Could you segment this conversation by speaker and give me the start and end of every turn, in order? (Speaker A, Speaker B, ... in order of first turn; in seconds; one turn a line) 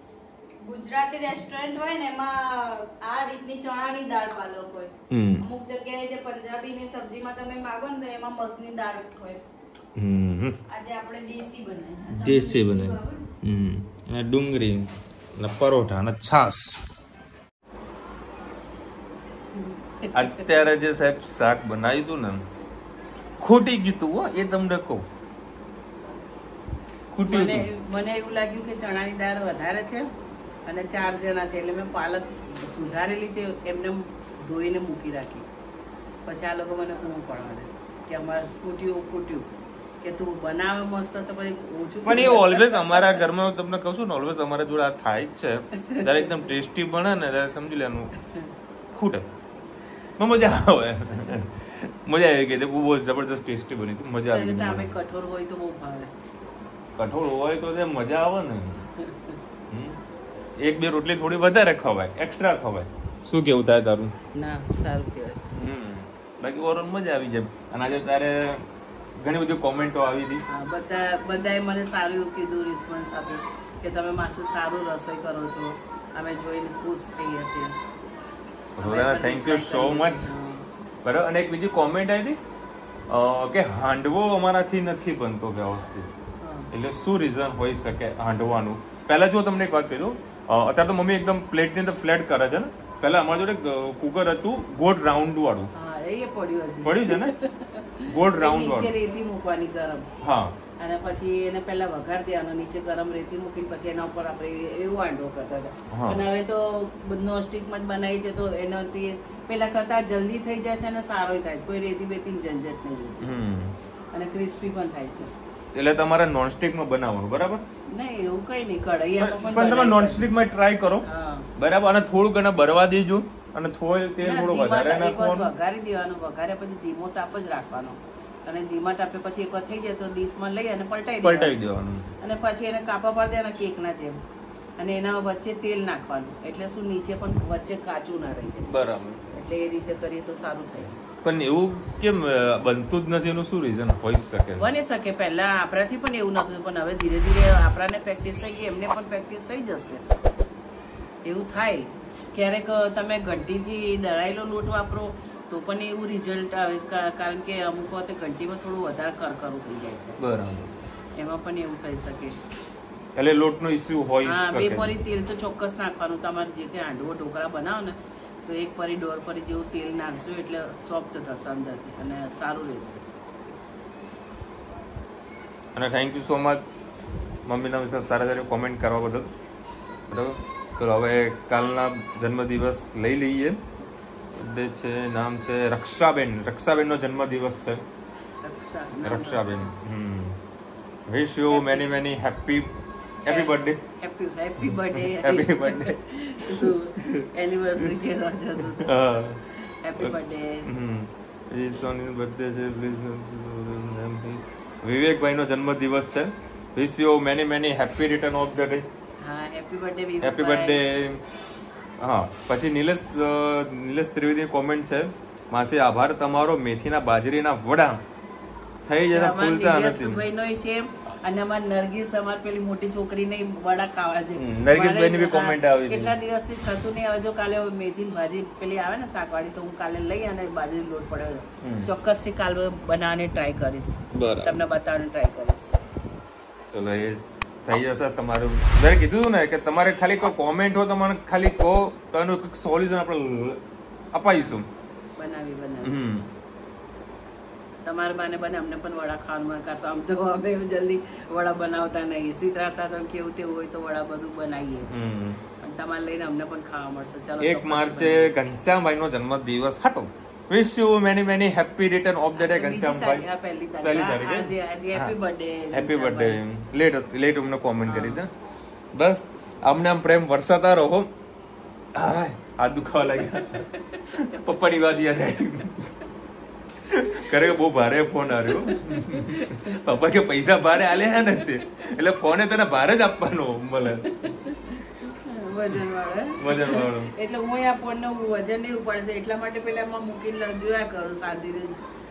Speaker A: 0.6-9.4
Speaker B: 5.1-5.5
Speaker B: 9.9-10.6
Speaker A: 10.7-13.2
Speaker B: 12.1-16.8
Speaker C: 19.5-20.4
Speaker B: 20.1-22.4
Speaker B: 23.4-25.0
Speaker B: 27.1-27.6
Speaker C: 27.2-30.1
Speaker C: 30.6-35.5
Speaker C: 36.2-39.5
Speaker C: 40.0-43.2
Speaker B: 42.0-48.1
Speaker B: 48.9-49.3
Speaker B: 50.2-54.9
Speaker C: 54.3-56.1
Speaker B: 57.0-58.9
Speaker C: 59.0-59.4
Speaker B: 59.7-60.0
Speaker B: 60.6-64.1
Speaker C: 64.3-65.4
Speaker B: 65.5-68.6
Speaker B: 69.2-70.4
Speaker C: 70.5-77.8
Speaker B: 78.8-80.3
Speaker C: 78.8-80.6
Speaker B: 81.0-82.4
Speaker B: 83.1-86.1
Speaker C: 86.4-86.7
Speaker B: 86.7-95.7
Speaker C: 95.7-100.1
Speaker B: 96.8-97.3
Speaker B: 98.0-98.9
Speaker B: 100.2-100.5
Speaker C: 100.8-113.2
Speaker B: 105.9-106.2
Speaker B: 113.2-113.7
Speaker C: 114.1-115.3
Speaker B: 115.7-117.6
Speaker C: 117.9-120.2
Speaker B: 119.2-121.0
Speaker C: 121.0-121.5
Speaker B: 121.6-125.5
Speaker C: 124.2-131.6
Speaker B: 131.2-132.1
Speaker C: 132.2-134.2
Speaker C: 134.8-138.7
Speaker B: 138.7-139.2
Speaker C: 139.3-141.0
Speaker B: 141.2-144.7
Speaker C: 144.6-150.1
Speaker C: 151.2-160.2
Speaker B: 160.2-160.7
Speaker C: 161.2-162.4
Speaker B: 163.2-164.9
Speaker C: 164.2-173.0
Speaker B: 175.7-176.6
Speaker B: 177.4-179.3
Speaker B: 180.1-183.6
Speaker B: 184.3-187.8
Speaker C: 188.4-189.7
Speaker B: 189.0-190.4
Speaker B: 191.1-192.7
Speaker C: 191.5-191.9
Speaker B: 193.2-193.8
Speaker C: 193.3-198.9
Speaker B: 194.6-197.3
Speaker B: 198.8-199.4
Speaker C: 199.8-200.7
Speaker B: 200.6-208.9
Speaker C: 209.2-210.8
Speaker B: 210.2-211.2
Speaker B: 212.0-218.0
Speaker B: 218.8-220.2
Speaker C: 219.1-235.7
Speaker B: 224.3-226.1
Speaker B: 231.6-231.9
Speaker B: 234.1-234.6
Speaker B: 236.7-243.6
Speaker B: 244.1-244.7
Speaker C: 245.2-245.9
Speaker B: 245.8-246.3
Speaker C: 247.8-254.9
Speaker B: 254.9-255.4
Speaker C: 255.6-258.3
Speaker B: 257.4-263.2
Speaker C: 262.4-266.4
Speaker B: 263.8-265.1
Speaker B: 265.7-268.3
Speaker C: 267.9-268.2
Speaker B: 268.9-271.1
Speaker B: 271.9-275.9
Speaker B: 276.9-284.1
Speaker C: 278.5-279.8
Speaker C: 284.1-291.8
Speaker B: 286.4-287.1